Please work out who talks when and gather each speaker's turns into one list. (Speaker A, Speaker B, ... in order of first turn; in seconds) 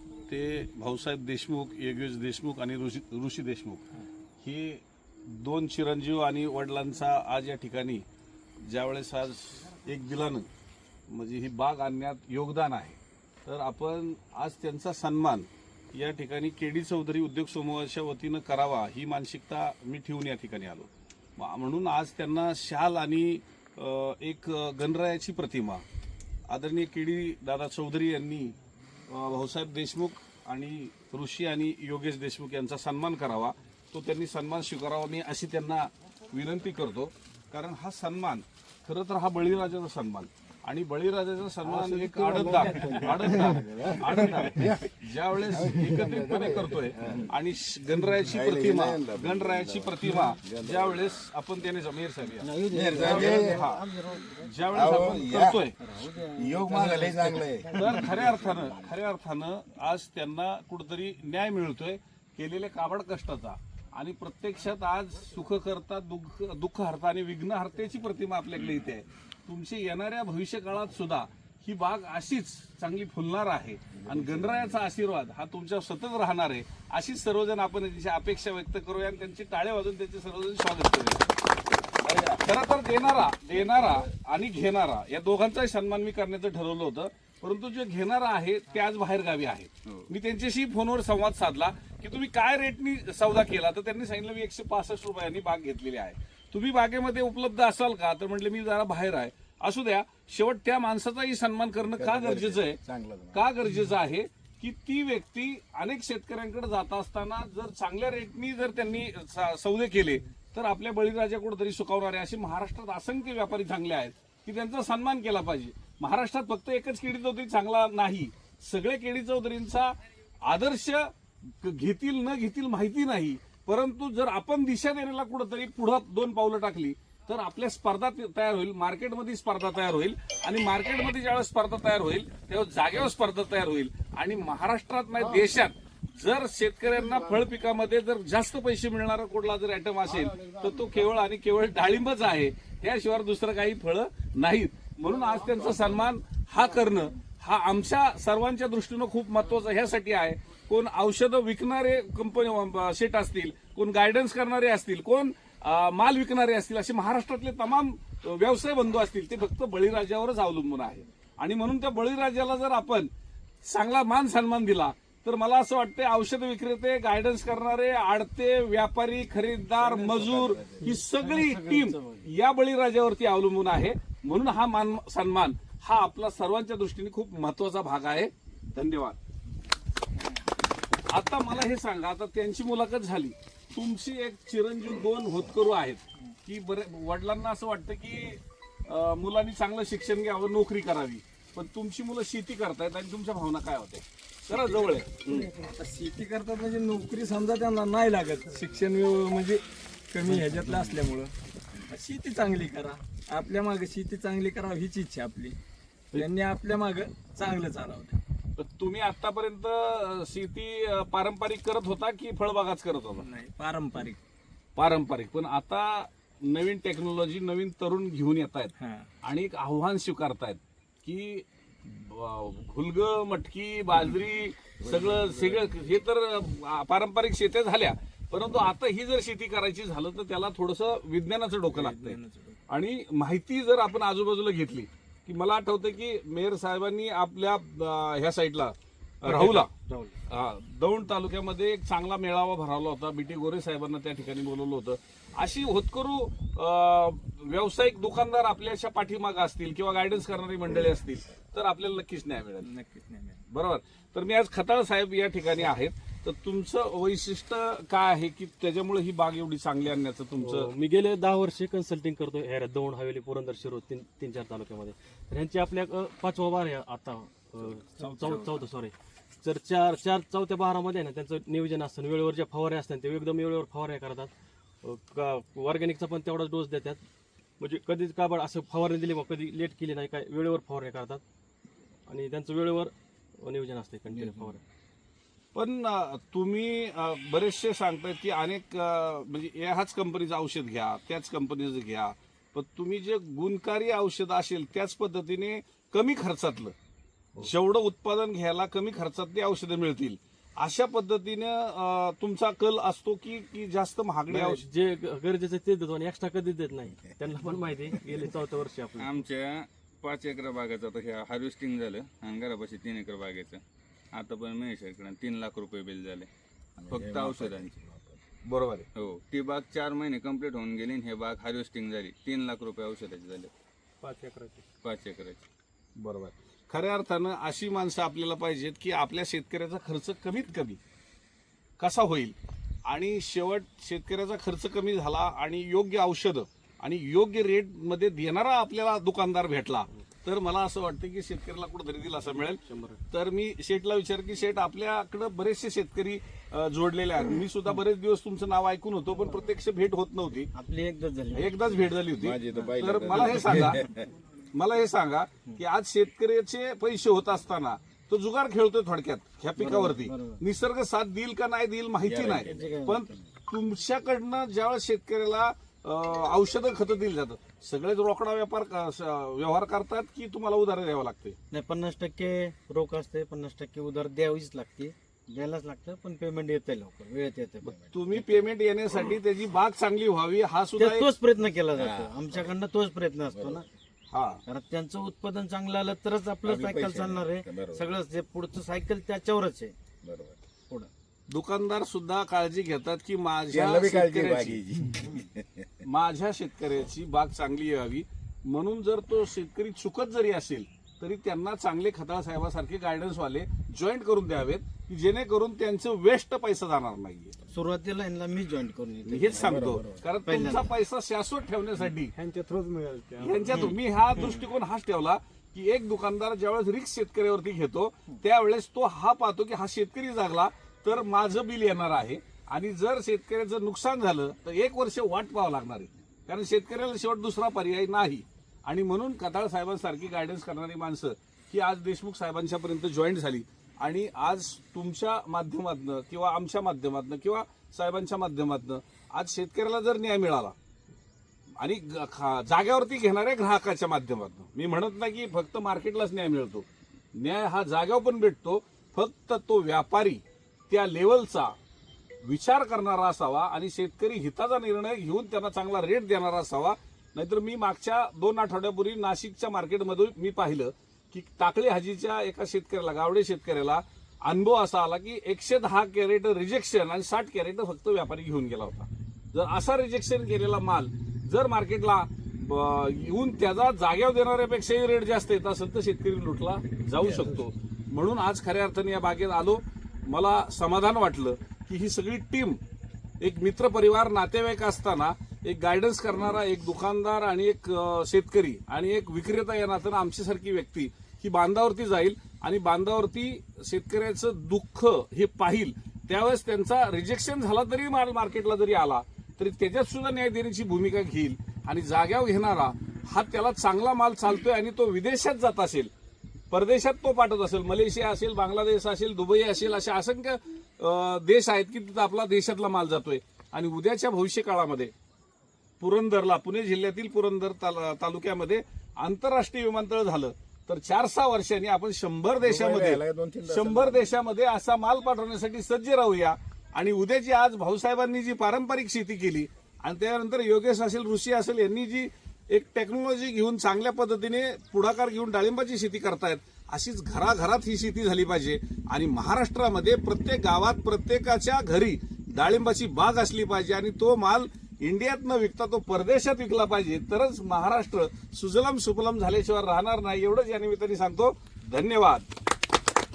Speaker A: 0.3-3.9, 4.4-8.0, 8.6-10.5, 11.1-25.8, 26.5-28.6, 29.1-52.5, 53.0-53.8, 54.4-55.8, 57.8-81.3, 82.2-102.8, 103.3-121.1, 121.6-163.1, 163.6-179.2, 181.1-195.5, 200.4-200.8, 208.6-213.3, 214.8-239.7, 240.3-252.7, 253.5-260.7, 285.5-296.7, 297.4-304.6, 318.4-318.9, 326.0-330.8, 331.8-332.3, 332.9-350.5, 351.3-353.8, 354.5-371.4, 377.6-381.1, 384.1-384.4, 391.3-394.6, 395.8-407.4, 409.1-412.1, 413.2-440.6, 441.6-451.5, 452.2-482.6, 483.2-505.9, 506.5-514.9, 515.8-552.2
Speaker B: 41.6-47.3, 48.3-51.2, 52.7-53.7, 54.7-55.6, 56.3-58.8, 74.1-74.7, 102.0-103.5, 224.9-225.4, 316.8-318.2, 352.2-354.1, 362.0-363.1, 381.7-382.5, 383.3-383.6, 386.4-387.9, 390.0-390.4, 393.5-395.8, 409.3-410.0, 522.4-524.1
Speaker C: 52.4-55.2, 55.8-58.4, 169.8-172.3, 239.2-240.1, 350.5-351.7, 359.6-360.4, 362.4-363.0, 371.5-378.5, 380.8-383.7, 384.5-389.7, 407.5-410.7, 413.5-414.4
Speaker D: 195.3-201.3, 201.8-205.6, 206.1-208.2, 213.2-214.2, 218.8-219.1, 231.7-232.6, 252.6-253.4, 324.0-324.6, 412.2-413.5
Speaker E: 260.4-274.3, 274.8-277.0, 277.6-281.2, 282.1-284.6, 304.3-309.1, 342.7-342.9
Speaker F: 309.0-313.6, 314.1-316.3, 316.9-317.7, 318.9-323.5, 324.8-325.4